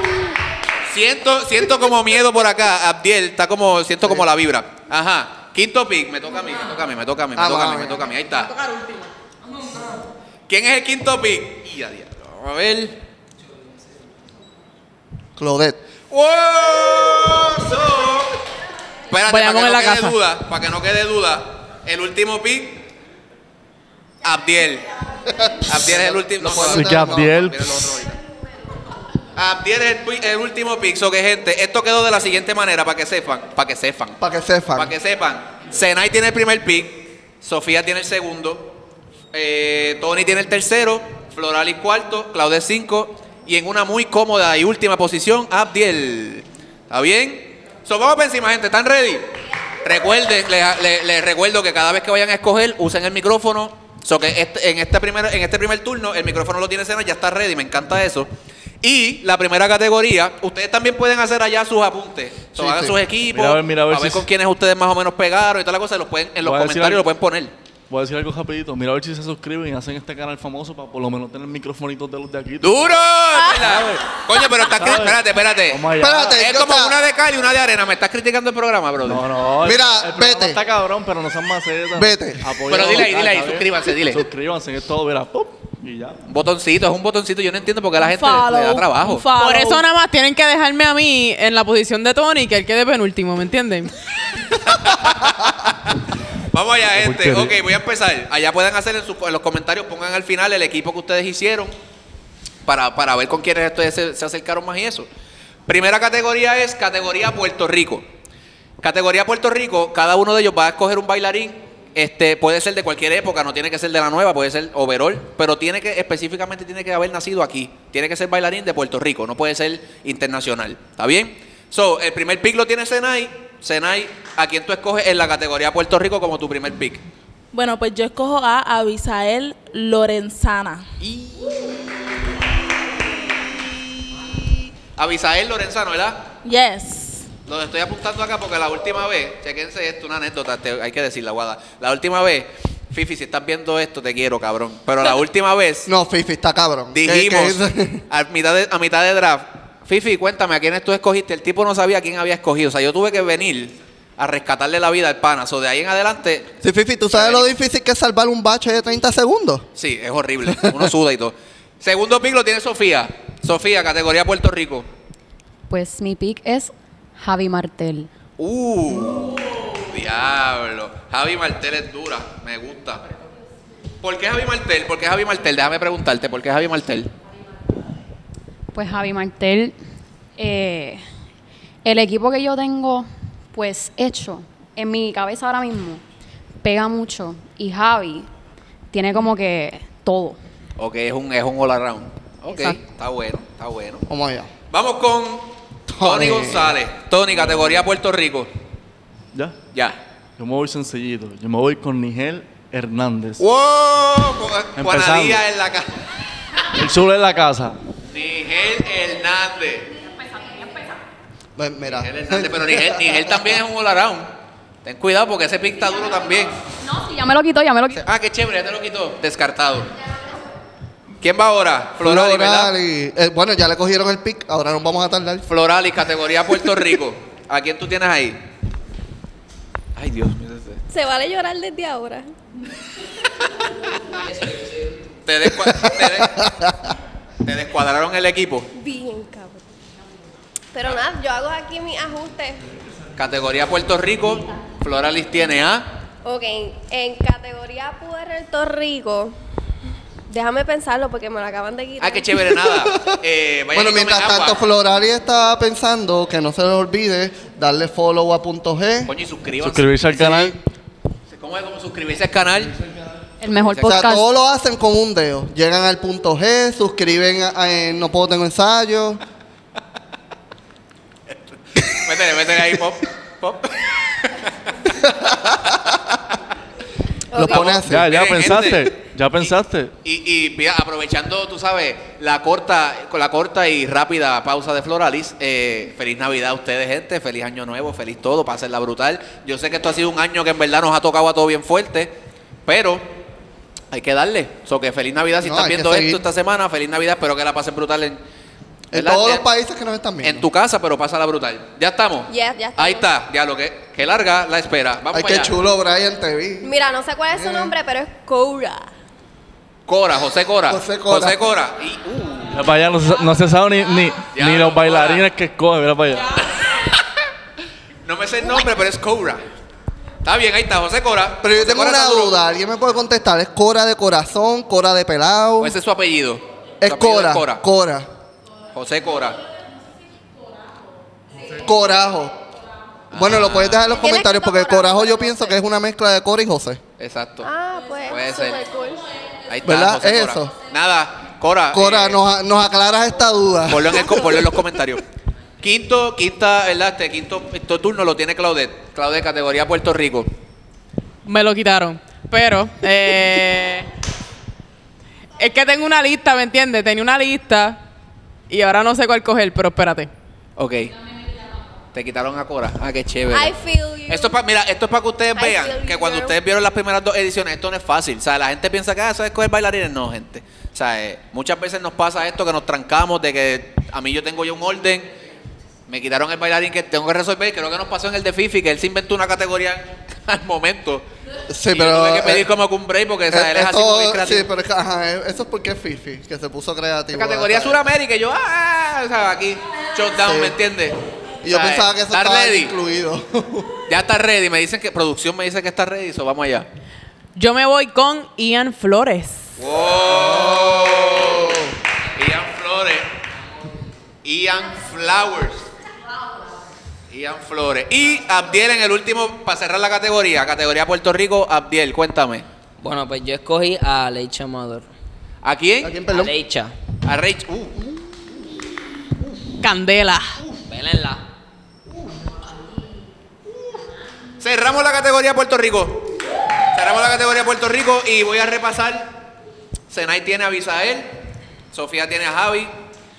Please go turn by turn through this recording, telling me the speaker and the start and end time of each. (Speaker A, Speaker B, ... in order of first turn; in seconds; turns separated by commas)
Speaker A: 0.9-8.5, Speaker B: 7.4-8.1, Speaker A: 10.5-13.0, Speaker B: 15.4-15.8, Speaker A: 16.1-18.4, Speaker A: 19.1-22.8, Speaker C: 19.3-20.2, Speaker A: 24.2-24.9, Speaker B: 25.4-27.4, Speaker A: 25.6-28.2, Speaker D: 26.7-27.8, Speaker A: 29.4-34.2, Speaker B: 34.2-34.9, Speaker A: 34.8-38.7, Speaker A: 39.3-49.3, Speaker A: 49.8-58.3, Speaker A: 58.8-67.5, Speaker B: 62.6-62.9, Speaker D: 63.2-64.3, Speaker D: 66.4-67.1, Speaker D: 67.9-76.3, Speaker A: 72.6-79.2, Speaker B: 76.0-77.0, Speaker D: 79.0-86.2, Speaker B: 79.6-80.6, Speaker B: 82.0-82.4, Speaker A: 82.7-84.2, Speaker A: 86.3-89.3, Speaker E: 88.0-89.8, Speaker C: 89.3-93.9, Speaker A: 94.5-101.7, Speaker D: 96.9-97.6, Speaker A: 102.7-105.1, Speaker A: 105.7-108.0, Speaker A: 108.8-127.0, Speaker E: 127.5-130.9, Speaker A: 131.0-131.8, Speaker A: 133.6-136.3, Speaker E: 136.4-137.3, Speaker A: 137.5-145.9, Speaker B: 145.9-148.0, Speaker A: 146.9-156.6, Speaker B: 156.6-159.7, Speaker A: 157.1-157.6, Speaker A: 159.8-164.9, Speaker B: 160.5-160.9, Speaker F: 165.7-168.1, Speaker A: 168.4-173.1, Speaker A: 174.0-177.1, Speaker F: 178.7-179.8, Speaker F: 180.4-181.0, Speaker F: 181.8-186.0, Speaker F: 186.6-188.3, Speaker F: 188.9-190.4, Speaker A: 190.8-194.1, Speaker F: 192.5-192.8, Speaker B: 194.1-194.5, Speaker A: 194.7-198.5, Speaker B: 195.9-196.8, Speaker A: 199.7-200.0, Speaker D: 200.4-203.4, Speaker A: 203.4-206.0, Speaker D: 204.8-205.4, Speaker D: 206.7-207.8, Speaker A: 208.1-209.9, Speaker B: 211.6-213.6, Speaker A: 211.9-214.3, Speaker A: 214.8-216.5, Speaker F: 216.8-218.0, Speaker A: 217.9-219.9, Speaker A: 221.2-222.7, Speaker B: 222.0-225.4, Speaker A: 225.5-228.4, Speaker A: 230.0-230.8, Speaker G: 230.9-232.3, Speaker H: 234.1-234.9, Speaker A: 235.2-236.5, Speaker B: 235.6-236.9, Speaker A: 237.4-238.7, Speaker G: 238.8-239.7, Speaker G: 240.7-242.6, Speaker A: 243.2-245.9, Speaker G: 246.2-249.3, Speaker G: 250.3-252.5, Speaker A: 252.0-254.6, Speaker B: 252.6-253.1, Speaker B: 253.7-259.1, Speaker A: 259.1-260.2, Speaker D: 259.6-260.6, Speaker B: 260.1-260.6, Speaker A: 261.3-262.7, Speaker F: 263.4-264.3, Speaker A: 263.6-264.1, Speaker B: 263.8-269.2, Speaker A: 271.8-274.7, Speaker B: 274.9-276.2, Speaker G: 277.3-277.7, Speaker B: 277.3-278.1, Speaker A: 277.4-278.9, Speaker D: 277.8-279.9, Speaker A: 280.0-293.1, Speaker A: 293.9-298.2, Speaker B: 295.4-296.2, Speaker B: 298.9-300.5, Speaker A: 298.9-299.4, Speaker A: 300.2-305.5, Speaker G: 302.3-303.1, Speaker B: 305.1-306.7, Speaker G: 306.6-308.9, Speaker B: 307.3-307.7, Speaker A: 309.9-312.7, Speaker B: 310.7-311.5, Speaker D: 312.5-316.3, Speaker A: 314.3-315.3, Speaker A: 316.6-317.0, Speaker A: 318.1-319.4, Speaker A: 320.2-322.4, Speaker B: 321.4-325.8, Speaker A: 325.6-327.6, Speaker B: 326.8-328.1, Speaker A: 328.7-329.4, Speaker B: 331.5-332.4, Speaker A: 333.1-334.0, Speaker B: 333.1-336.8, Speaker G: 333.9-335.6, Speaker A: 337.0-337.5, Speaker G: 337.4-339.1, Speaker A: 338.1-338.6, Speaker A: 339.5-342.2, Speaker B: 339.6-340.5, Speaker B: 341.7-344.6, Speaker A: 343.7-345.0, Speaker A: 345.6-350.3, Speaker C: 351.2-353.9, Speaker C: 355.4-357.8, Speaker C: 358.5-360.1, Speaker A: 360.6-361.0, Speaker A: 361.9-363.6, Speaker G: 363.3-364.4, Speaker A: 364.1-375.1, Speaker G: 365.4-366.4, Speaker A: 375.9-381.1, Speaker B: 381.5-382.5, Speaker A: 381.7-384.5, Speaker B: 383.3-387.9, Speaker A: 387.1-392.7, Speaker B: 390.2-390.6, Speaker B: 391.4-393.8, Speaker A: 393.9-396.7, Speaker C: 397.4-399.5, Speaker A: 399.6-403.1, Speaker B: 400.2-401.8, Speaker A: 404.2-405.7, Speaker A: 407.1-412.5, Speaker H: 412.8-414.9, Speaker A: 415.4-415.9, Speaker B: 415.8-416.3, Speaker H: 416.1-416.7, Speaker A: 417.1-417.8, Speaker C: 419.6-420.4, Speaker H: 420.6-421.2, Speaker A: 424.4-426.1, Speaker A: 426.7-429.1, Speaker A: 429.9-431.1, Speaker A: 431.7-432.7